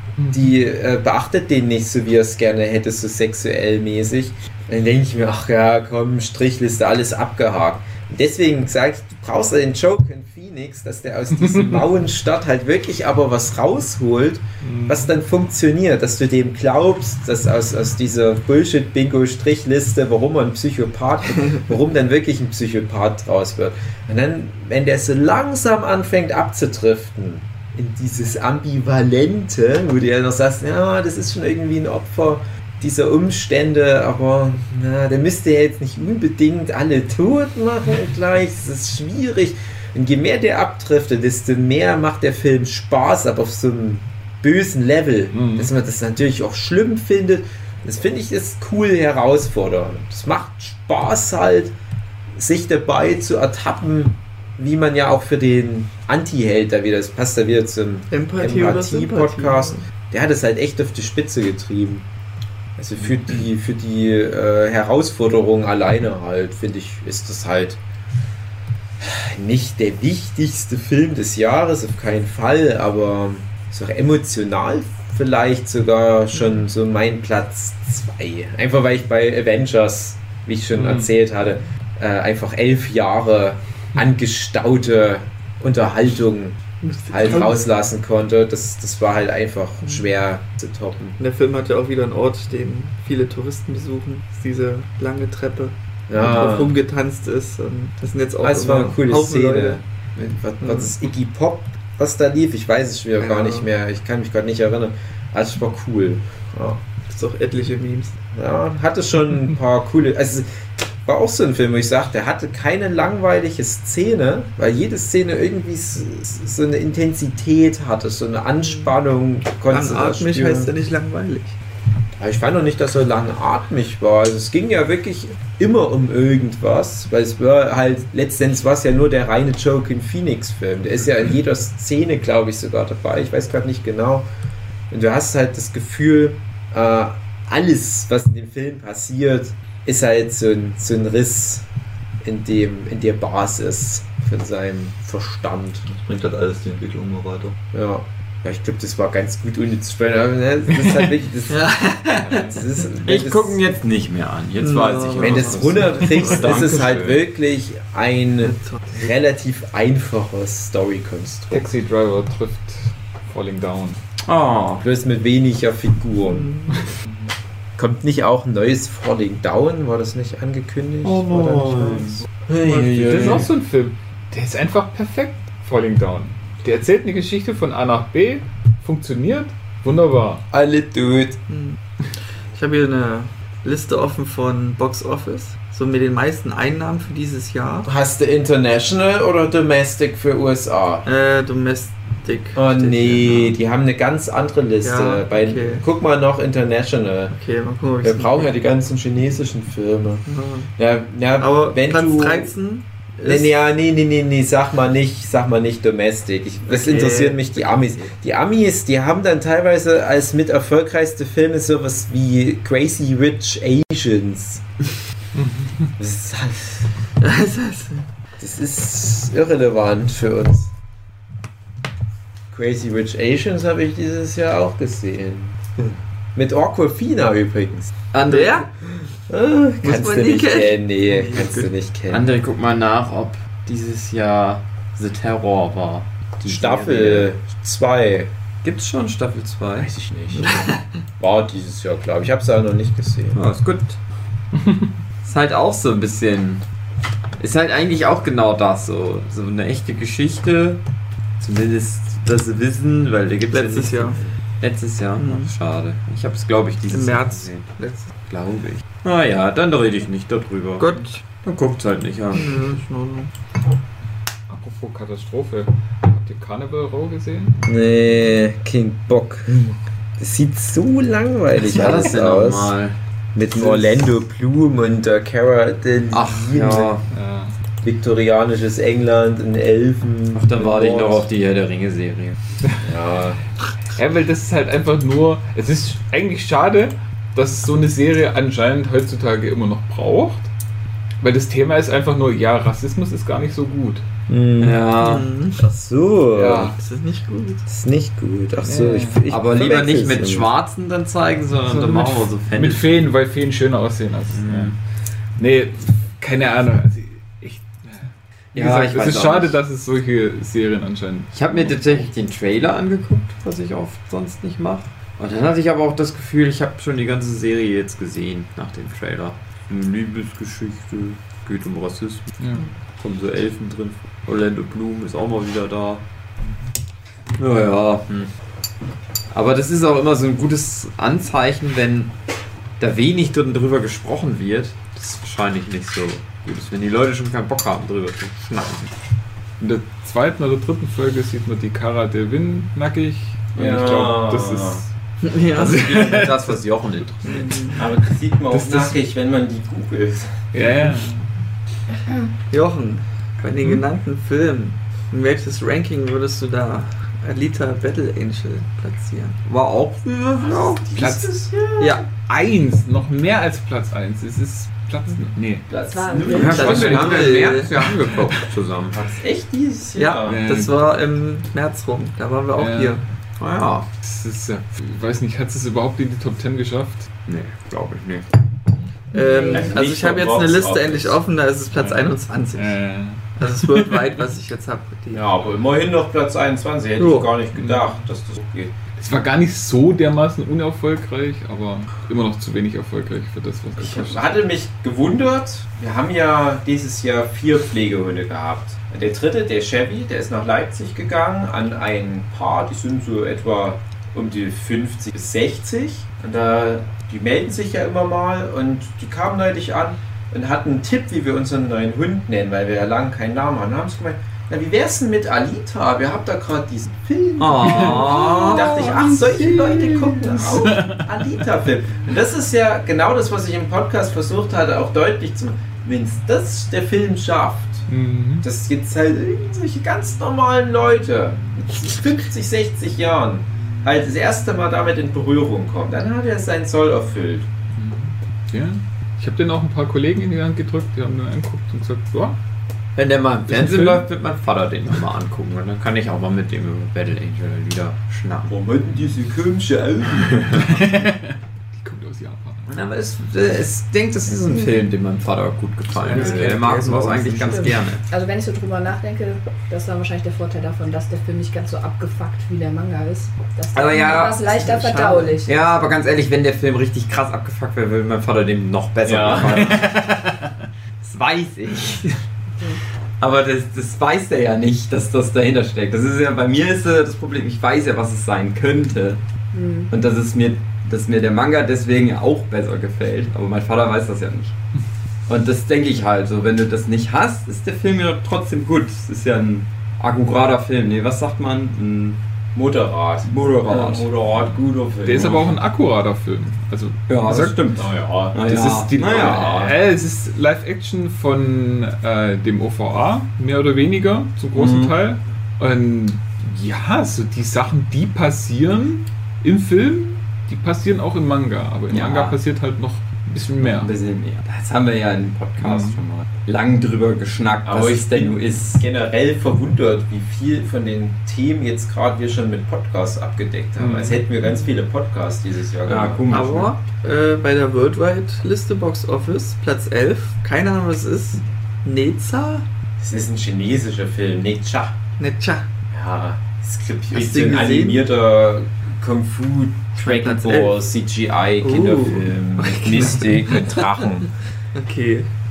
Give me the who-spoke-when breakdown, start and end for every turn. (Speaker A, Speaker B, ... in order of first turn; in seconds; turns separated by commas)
Speaker A: 0.2-0.5, Speaker B: 0.3-51.7, Speaker A: 11.5-11.8, Speaker A: 14.6-15.1, Speaker A: 45.3-45.7, Speaker B: 52.3-62.0, Speaker C: 58.1-59.8, Speaker B: 62.8-67.8, Speaker B: 69.0-91.2, Speaker A: 80.7-81.1, Speaker C: 86.8-87.6, Speaker C: 91.2-99.8, Speaker B: 96.1-96.8, Speaker B: 98.4-106.8, Speaker C: 100.6-100.9, Speaker C: 103.2-103.7, Speaker C: 107.1-108.2, Speaker B: 108.3-110.5, Speaker B: 111.0-120.7, Speaker C: 119.7-121.6, Speaker B: 122.2-134.3, Speaker B: 134.9-141.7, Speaker B: 142.2-145.9, Speaker D: 145.8-147.5, Speaker B: 147.7-153.6, Speaker C: 151.5-152.5, Speaker E: 153.0-157.2, Speaker C: 154.6-156.6, Speaker B: 155.2-161.6, Speaker A: 156.3-156.9, Speaker C: 158.4-158.8, Speaker A: 161.5-164.0, Speaker E: 164.2-164.8, Speaker B: 164.8-166.5, Speaker C: 166.3-166.8, Speaker B: 167.8-173.5, Speaker E: 171.0-172.2, Speaker C: 172.7-173.1, Speaker E: 172.9-173.4, Speaker A: 172.9-180.4, Speaker B: 180.5-181.4, Speaker C: 181.5-181.8, Speaker C: 182.4-187.9, Speaker B: 187.8-191.0, Speaker C: 191.0-193.5, Speaker B: 192.5-197.3, Speaker C: 194.8-195.8, Speaker C: 197.3-198.5, Speaker B: 198.0-202.5, Speaker C: 200.3-200.7, Speaker C: 201.4-203.5, Speaker B: 203.2-214.6, Speaker C: 206.7-207.4, Speaker A: 215.4-215.9, Speaker B: 216.0-216.9, Speaker C: 217.2-218.1, Speaker B: 218.4-220.7, Speaker B: 222.5-225.6, Speaker B: 226.3-227.9, Speaker E: 228.1-228.7, Speaker B: 229.3-232.3, Speaker C: 229.8-231.7, Speaker E: 232.1-237.3, Speaker B: 236.4-238.3, Speaker E: 238.6-239.9, Speaker B: 239.8-243.4, Speaker C: 240.3-240.8, Speaker E: 243.3-244.0, Speaker A: 244.6-244.9, Speaker E: 245.2-246.6, Speaker E: 247.4-250.8, Speaker E: 251.4-260.9, Speaker C: 253.5-254.2, Speaker C: 255.2-255.5, Speaker C: 256.9-258.0, Speaker C: 260.8-261.2, Speaker E: 261.4-262.8, Speaker C: 262.3-263.3, Speaker A: 264.5-267.6, Speaker B: 267.6-272.7, Speaker E: 271.6-273.0, Speaker B: 273.3-276.9, Speaker E: 273.5-274.0, Speaker E: 276.1-277.0, Speaker A: 277.1-277.5, Speaker B: 277.8-281.2, Speaker E: 280.3-282.4, Speaker B: 282.8-283.4, Speaker A: 283.9-290.5, Speaker A: 291.2-294.0, Speaker B: 294.3-294.8, Speaker E: 294.6-295.3, Speaker C: 295.0-295.6, Speaker B: 295.6-296.7, Speaker A: 296.3-296.8, Speaker C: 296.6-297.6, Speaker B: 297.7-300.5, Speaker A: 298.6-299.2, Speaker E: 299.3-302.9, Speaker A: 301.6-304.8, Speaker E: 304.4-304.7, Speaker A: 305.4-312.0, Speaker E: 308.5-309.5, Speaker E: 311.3-326.0, Speaker A: 322.4-322.7, Speaker E: 327.4-328.3, Speaker E: 329.3-332.1, Speaker E: 332.8-338.9, Speaker A: 339.6-344.9, Speaker B: 343.6-344.8, Speaker C: 345.2-346.2, Speaker E: 345.5-347.8, Speaker A: 345.8-346.4, Speaker C: 347.2-347.8, Speaker B: 347.7-350.5, Speaker A: 348.5-348.9, Speaker A: 350.5-351.4, Speaker C: 352.5-359.4, Speaker E: 359.4-360.8, Speaker B: 360.4-362.0, Speaker A: 360.9-361.3, Speaker C: 361.8-362.1, Speaker A: 362.1-365.7, Speaker E: 365.7-369.1, Speaker F: 365.9-366.7, Speaker B: 366.3-367.7, Speaker A: 366.4-367.4, Speaker C: 366.4-367.7, Speaker B: 368.9-370.4, Speaker C: 370.0-373.0, Speaker A: 370.2-370.9, Speaker A: 372.5-373.0, Speaker E: 373.4-373.9, Speaker A: 374.0-377.1, Speaker E: 377.3-378.3, Speaker C: 379.1-382.8, Speaker F: 379.1-379.7, Speaker B: 379.5-381.2, Speaker A: 381.7-384.2, Speaker C: 383.4-385.2, Speaker B: 385.1-388.7, Speaker C: 387.0-387.3, Speaker A: 387.6-388.0, Speaker A: 389.0-394.3, Speaker B: 393.8-427.9, Speaker E: 417.4-420.5, Speaker A: 417.7-418.5, Speaker A: 420.6-421.1, Speaker A: 427.9-428.4, Speaker B: 428.4-437.5, Speaker A: 437.8-442.4, Speaker E: 442.9-448.5, Speaker A: 443.5-444.0, Speaker B: 448.5-450.4, Speaker A: 450.5-452.7, Speaker E: 452.7-458.0, Speaker A: 456.0-456.8, Speaker D: 456.6-457.6, Speaker F: 458.0-465.5, Speaker E: 463.7-470.0, Speaker B: 469.0-469.6, Speaker A: 469.6-470.4, Speaker E: 471.0-472.2, Speaker E: 473.2-479.2, Speaker F: 479.5-479.9, Speaker E: 479.9-484.6, Speaker E: 485.3-492.2, Speaker B: 492.5-495.6, Speaker E: 493.2-494.3, Speaker A: 495.0-497.7, Speaker E: 497.1-499.6, Speaker B: 497.8-498.4, Speaker A: 498.4-513.9, Speaker B: 498.9-499.7, Speaker E: 504.5-504.9, Speaker E: 511.9-512.4, Speaker E: 513.6-518.7, Speaker A: 515.6-516.0, Speaker B: 517.6-526.2, Speaker A: 523.8-524.2, Speaker E: 525.9-526.7, Speaker C: 526.3-532.6, Speaker B: 533.0-535.0, Speaker C: 535.2-535.7, Speaker B: 535.9-544.3, Speaker C: 537.1-538.1, Speaker C: 540.0-540.8, Speaker C: 541.6-544.0, Speaker C: 544.8-545.3